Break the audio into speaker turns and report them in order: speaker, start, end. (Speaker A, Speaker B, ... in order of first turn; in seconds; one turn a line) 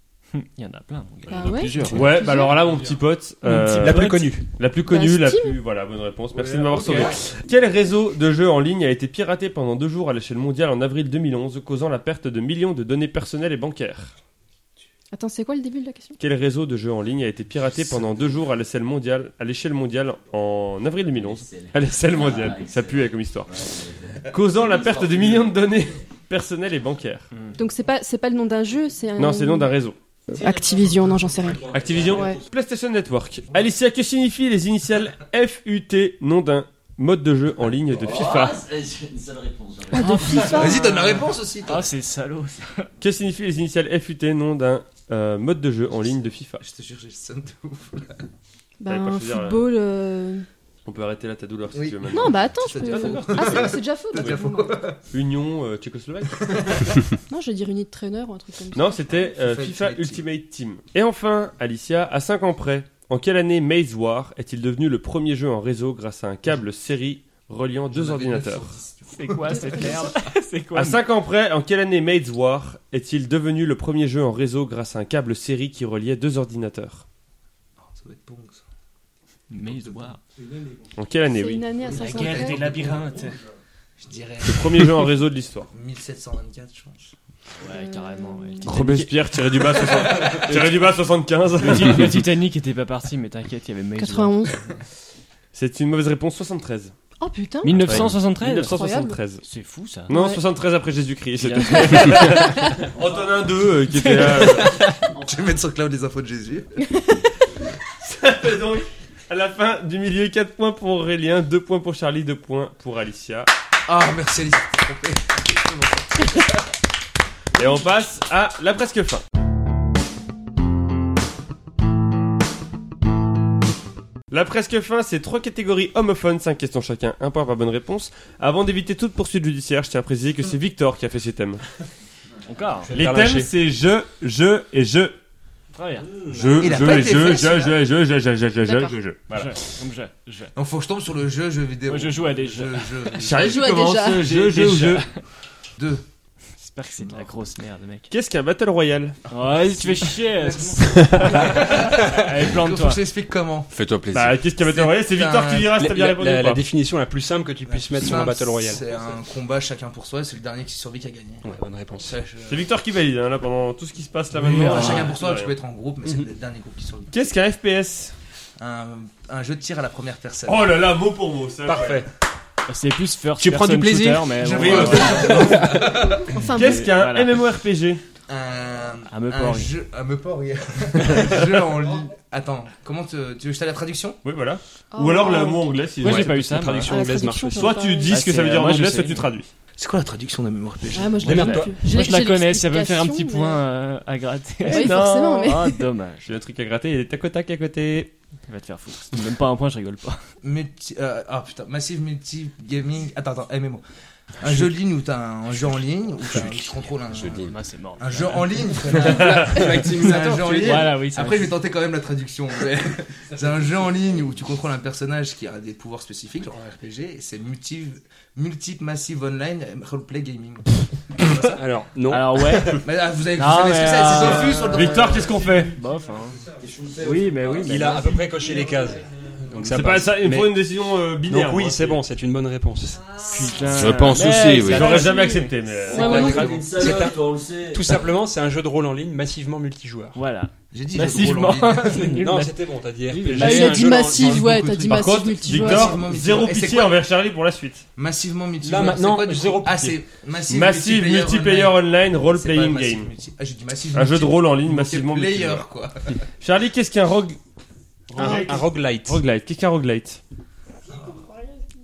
Speaker A: 0.3-1.8
Speaker B: 1.3-2.6
Speaker C: 1.4-2.2
Speaker D: 1.9-14.1
Speaker E: 1.9-4.5
Speaker A: 3.4-4.2
Speaker B: 4.8-5.5
Speaker E: 6.3-7.2
Speaker B: 15.1-16.2
Speaker D: 16.2-23.8
Speaker F: 21.1-25.6
Speaker D: 24.3-27.3
Speaker B: 27.6-29.7
Speaker D: 29.2-29.9
Speaker B: 30.3-32.4
Speaker F: 31.4-32.4
Speaker D: 31.7-38.6
Speaker F: 37.9-40.8
Speaker B: 39.9-40.8
Speaker A: 40.0-42.9
Speaker G: 40.5-41.9
Speaker D: 43.0-46.6
Speaker G: 46.6-48.2
Speaker B: 48.8-50.5
Speaker D: 48.9-49.7
Speaker D: 50.8-54.3
Speaker G: 51.7-55.0
Speaker B: 52.1-54.8
Speaker D: 55.1-57.0
Speaker G: 56.4-56.9
Speaker B: 57.3-59.3
Speaker D: 58.7-68.7
Speaker G: 59.2-60.2
Speaker G: 67.9-70.1
Speaker A: 69.1-71.0
Speaker D: 70.7-77.0
Speaker G: 77.8-78.6
Speaker A: 79.5-80.2
Speaker G: 79.6-80.1
Speaker D: 81.0-81.6
Speaker B: 81.3-82.6
Speaker G: 81.8-83.2
Speaker A: 81.9-83.4
Speaker G: 84.0-85.0
Speaker D: 84.4-85.7
Speaker G: 85.7-87.1
Speaker A: 87.6-89.1
Speaker B: 87.7-88.7
Speaker D: 88.6-92.2
Speaker G: 89.8-90.6
Speaker A: 91.6-94.6
Speaker B: 94.0-94.6
Speaker D: 95.5-96.9
Speaker B: 97.2-98.0
Speaker A: 97.6-98.7
Speaker D: 97.8-99.5
Speaker B: 98.7-99.2
Speaker A: 99.4-100.1
Speaker D: 100.1-104.8
Speaker B: 100.1-100.4
Speaker A: 101.4-102.5
Speaker B: 102.5-102.8
Speaker F: 105.1-105.5
Speaker G: 105.2-106.7
Speaker B: 106.8-107.2
Speaker D: 108.0-113.5
Speaker G: 113.8-116.3
Speaker D: 117.5-119.2
Speaker D: 124.3-131.6
Speaker A: 132.4-132.9
Speaker E: 132.8-133.5
Speaker D: 132.9-135.2
Speaker A: 135.7-136.6
Speaker F: 136.1-136.5
Speaker D: 136.3-139.4
Speaker G: 136.6-137.8
Speaker B: 138.6-138.9
Speaker A: 139.3-140.5
Speaker G: 140.5-143.6
Speaker A: 141.9-143.2
Speaker D: 143.2-145.1
Speaker B: 143.3-144.3
Speaker A: 144.2-145.0
Speaker G: 144.2-145.1
Speaker G: 145.8-146.0
Speaker A: 146.6-148.1
Speaker D: 148.1-149.2
Speaker G: 149.3-153.7
Speaker A: 149.3-153.0
Speaker C: 153.7-154.4
Speaker D: 154.1-156.6
Speaker G: 154.6-155.8
Speaker E: 155.7-158.8
Speaker G: 157.7-162.7
Speaker E: 161.4-162.2
Speaker D: 162.5-165.5
Speaker G: 164.3-167.2
Speaker A: 164.5-165.1
Speaker D: 167.1-168.1
Speaker G: 168.6-170.8
Speaker D: 170.4-172.0
Speaker E: 171.6-172.1
Speaker A: 172.7-175.8
Speaker E: 173.4-175.7
Speaker G: 174.3-176.4
Speaker D: 174.5-175.6
Speaker B: 176.0-176.9
Speaker A: 176.4-177.4
Speaker D: 176.5-178.0
Speaker G: 178.3-184.2
Speaker A: 179.1-179.7
Speaker D: 184.2-186.4
Speaker B: 184.9-185.7
Speaker A: 186.0-187.0
Speaker E: 186.0-187.8
Speaker B: 186.8-188.2
Speaker D: 187.5-189.5
Speaker A: 188.1-189.3
Speaker G: 189.8-191.6
Speaker B: 190.9-193.6
Speaker E: 191.2-191.8
Speaker A: 191.7-196.3
Speaker D: 194.6-195.5
Speaker B: 194.7-195.8
Speaker D: 196.2-198.1
Speaker A: 198.5-200.3
Speaker G: 200.4-203.8
Speaker G: 204.4-221.4
Speaker C: 207.2-207.5
Speaker A: 207.4-211.6
Speaker E: 208.9-210.9
Speaker D: 209.1-209.5
Speaker E: 221.2-222.8
Speaker A: 222.1-226.5
Speaker G: 222.7-225.4
Speaker E: 224.2-224.5
Speaker D: 224.7-225.7
Speaker E: 225.1-225.7
Speaker F: 226.6-229.1
Speaker A: 227.0-228.4
Speaker E: 227.6-230.6
Speaker D: 229.6-232.0
Speaker E: 231.3-233.6
Speaker A: 233.2-235.6
Speaker C: 233.7-235.1
Speaker D: 234.6-236.3
Speaker F: 235.8-238.1
Speaker B: 235.9-236.5
Speaker E: 235.9-240.2
Speaker A: 236.2-236.6
Speaker A: 240.1-243.8
Speaker G: 240.7-242.2
Speaker E: 241.8-244.5
Speaker B: 243.3-246.0
Speaker G: 243.8-247.0
Speaker D: 244.9-247.8
Speaker G: 247.9-256.2
Speaker E: 248.6-250.0
Speaker D: 250.5-253.1
Speaker D: 253.9-255.7
Speaker D: 256.4-257.4
Speaker D: 258.1-260.2
Speaker E: 258.1-259.2